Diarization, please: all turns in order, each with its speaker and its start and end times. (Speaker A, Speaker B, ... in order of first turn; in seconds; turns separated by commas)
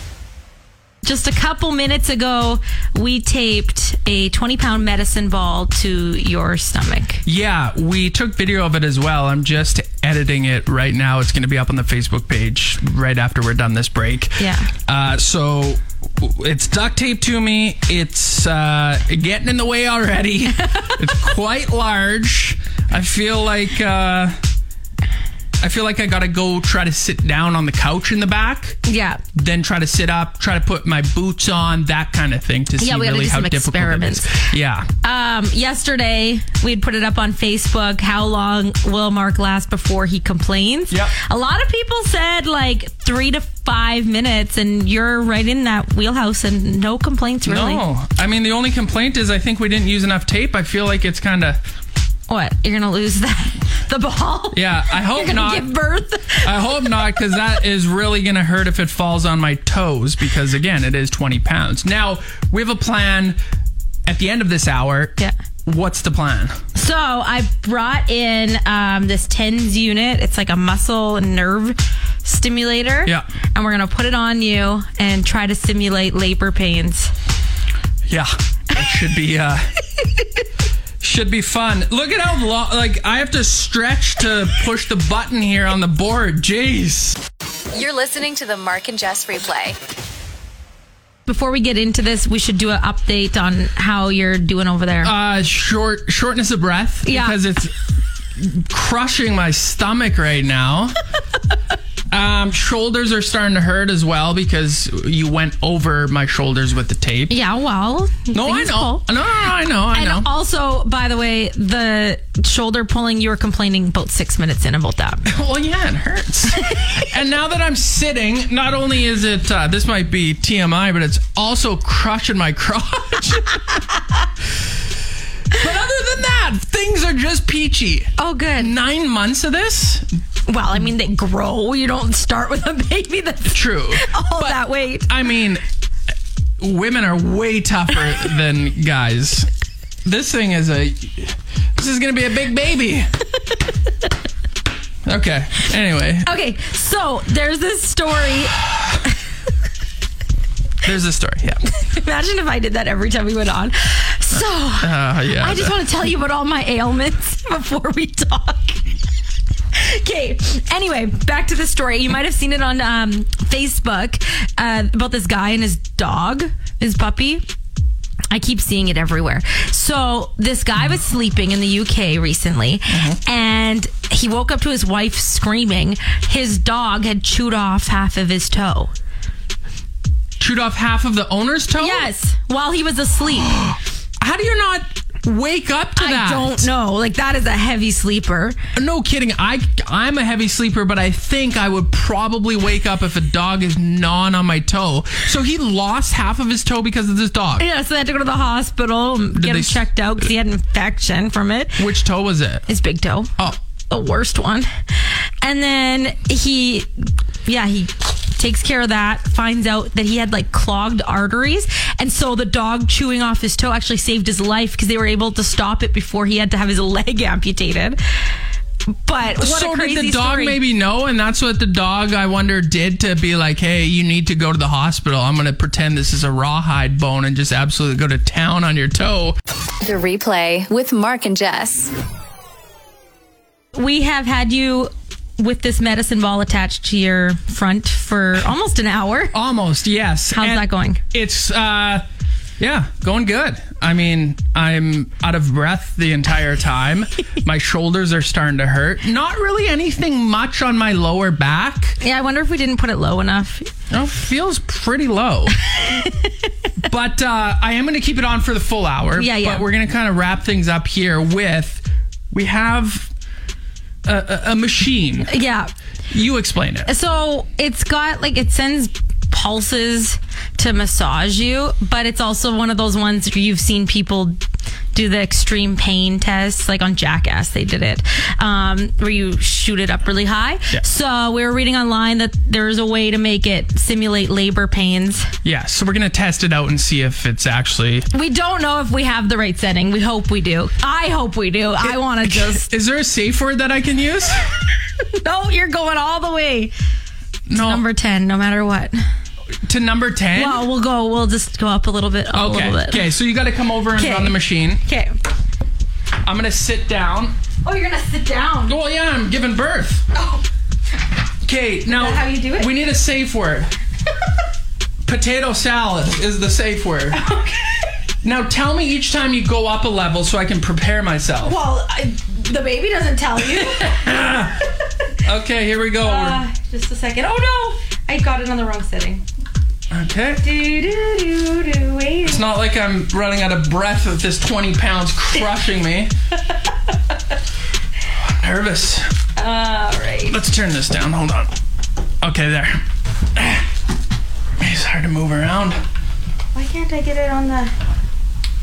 Speaker A: 1.0-7.2, Speaker B: 7.2-14.4, Speaker A: 14.4-14.7, Speaker B: 14.9-24.4, Speaker A: 20.6-21.0, Speaker B: 25.6-28.8, Speaker A: 28.9-29.2, Speaker B: 29.3-34.9, Speaker A: 32.8-34.4, Speaker A: 35.0-47.9, Speaker B: 47.5-51.6, Speaker A: 52.3-57.4, Speaker B: 54.5-55.7, Speaker B: 56.4-63.4, Speaker B: 64.1-66.5, Speaker A: 66.8-77.1, Speaker B: 78.1-79.7, Speaker B: 81.0-87.2, Speaker C: 87.7-89.8, Speaker A: 91.3-95.1, Speaker B: 95.0-97.7, Speaker A: 97.0-97.4, Speaker B: 98.4-101.0, Speaker B: 102.1-107.4, Speaker A: 107.3-109.1, Speaker B: 108.3-110.3, Speaker A: 109.9-115.2, Speaker B: 115.3-123.6, Speaker B: 125.5-130.1, Speaker A: 128.2-128.7, Speaker A: 130.5-135.1, Speaker B: 133.4-135.6, Speaker B: 136.6-139.5, Speaker B: 140.1-143.1, Speaker B: 145.1-146.3, Speaker A: 146.2-148.6, Speaker B: 150.8-151.6, Speaker A: 151.7-158.8, Speaker B: 154.4-155.8, Speaker A: 159.7-167.4, Speaker A: 168.3-178.9, Speaker B: 172.9-173.2, Speaker B: 180.4-182.1, Speaker A: 181.8-183.8, Speaker B: 183.6-186.7, Speaker A: 186.0-188.6, Speaker B: 188.8-197.7, Speaker A: 197.6-201.8, Speaker B: 199.3-199.8, Speaker B: 201.8-202.7, Speaker A: 202.7-203.3, Speaker A: 203.9-206.9, Speaker A: 207.4-218.0, Speaker A: 219.1-220.6, Speaker B: 219.3-229.4, Speaker C: 229.8-231.9, Speaker A: 233.7-239.3, Speaker B: 239.3-242.0, Speaker A: 240.3-241.0, Speaker B: 242.6-252.0, Speaker A: 252.0-253.7, Speaker B: 253.9-255.6, Speaker A: 255.7-256.5, Speaker B: 256.8-263.1, Speaker A: 259.2-259.6, Speaker B: 264.1-265.3, Speaker A: 265.3-265.7, Speaker B: 266.1-266.9, Speaker A: 266.9-274.4, Speaker A: 274.9-285.3, Speaker B: 285.4-288.1, Speaker A: 288.1-292.7, Speaker B: 291.9-294.5, Speaker A: 295.2-296.7, Speaker B: 297.5-297.8, Speaker A: 297.6-299.0, Speaker B: 299.6-300.7, Speaker A: 300.3-303.0, Speaker B: 302.3-304.8, Speaker A: 304.0-305.2, Speaker B: 306.2-307.3, Speaker A: 307.6-308.8, Speaker B: 308.7-310.1, Speaker A: 310.1-310.4, Speaker B: 311.4-313.7, Speaker A: 311.9-312.7, Speaker B: 315.1-317.3, Speaker A: 317.1-317.9, Speaker B: 318.2-321.6, Speaker A: 321.4-324.6, Speaker B: 323.4-324.6, Speaker B: 325.2-326.4, Speaker A: 326.0-329.2, Speaker B: 329.9-330.5, Speaker A: 330.4-332.4, Speaker B: 332.2-336.1, Speaker B: 338.1-339.1, Speaker A: 339.4-340.4, Speaker B: 340.3-341.5, Speaker B: 342.2-342.8, Speaker B: 343.4-343.7, Speaker B: 344.6-345.8, Speaker A: 346.5-347.7